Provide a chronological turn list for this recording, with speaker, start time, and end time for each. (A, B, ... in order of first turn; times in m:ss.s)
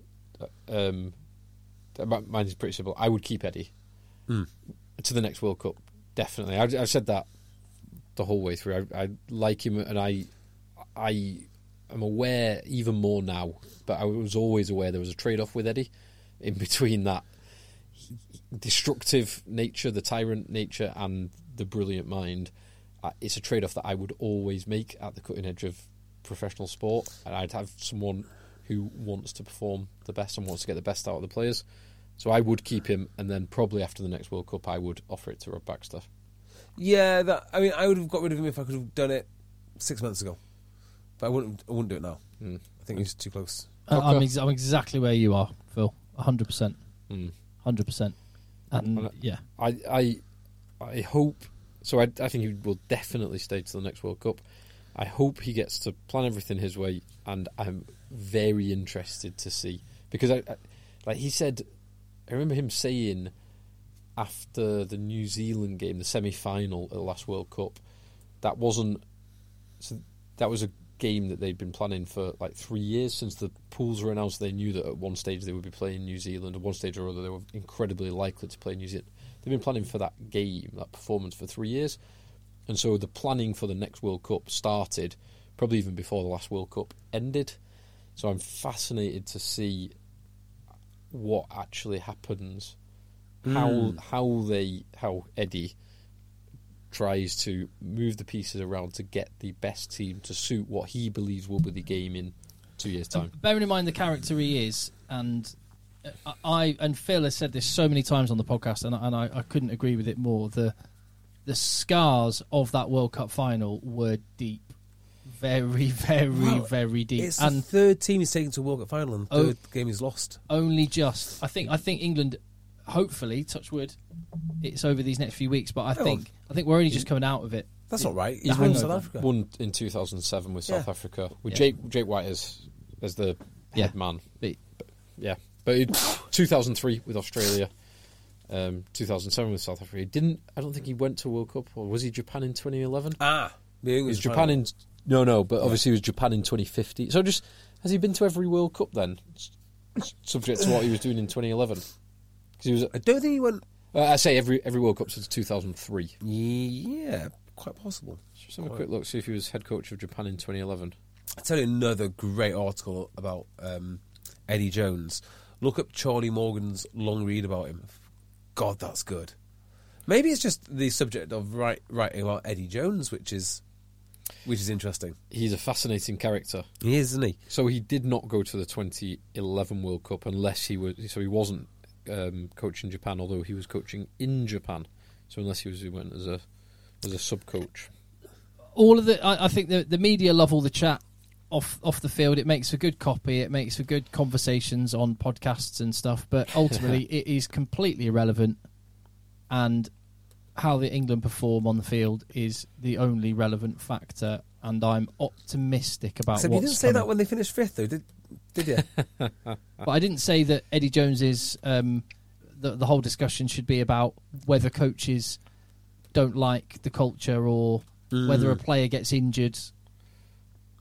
0:00.4-0:01.1 A
0:01.9-0:03.7 A
0:05.0-0:07.3 A
0:08.1-0:10.3 A
0:10.9-0:17.3 A
0:18.5-0:22.5 A
0:23.0-0:31.6 A
0:32.2-0:36.1 A
0:36.8-0:39.3 B
0:39.8-0:40.4 B
0:41.2-0:42.2 B
0:42.4-0:43.0 A
0:42.8-0:43.7 B
0:43.9-0:46.8 C
0:43.9-0:44.3 A
0:47.1-0:47.3 A
0:47.6-0:48.2 C
0:48.7-0:49.4 C
0:48.9-0:50.2 A
0:50.8-0:54.4 A
0:54.9-1:01.6 A
1:02.3-1:03.3 A
1:04.2-1:07.8 A
1:08.4-1:09.0 A
1:09.8-1:22.0 A
1:22.7-1:27.6 A
1:28.2-1:29.9 A
1:31.1-1:32.7 A
1:33.4-1:34.0 B
1:33.4-1:35.7 A
1:36.9-1:43.3 A
1:43.1-1:45.5 C
1:46.0-1:50.7 C
1:51.4-1:54.7 C
1:55.3-1:57.6 C
1:56.3-2:00.4 B
2:00.5-2:04.0 C
2:04.6-2:09.0 C
2:05.9-2:06.2 B
2:07.9-2:09.3 B
2:08.4-2:14.3 A
2:13.7-2:14.6 C
2:14.8-2:17.7 A
2:18.5-2:23.2 A
2:23.2-2:24.6 B
2:24.1-2:31.9 A
2:32.6-2:32.9 A
2:32.9-2:33.6 B
2:33.9-2:36.1 A
2:36.2-2:38.8 B
2:38.4-2:41.0 A
2:41.4-2:47.9 B
2:48.6-2:49.3 B
2:50.1-2:53.6 B
2:54.4-2:55.2 B
2:55.3-2:56.7 A
2:56.8-2:57.4 B
2:57.5-3:06.4 A
3:07.0-3:07.9 A
3:08.8-3:18.6 C
3:19.5-3:19.9 C
3:20.6-3:27.1 C
3:26.3-3:28.9 B
3:29.8-3:32.0 C
3:32.6-3:35.4 C
3:36.1-3:39.7 C
3:38.1-3:38.6 B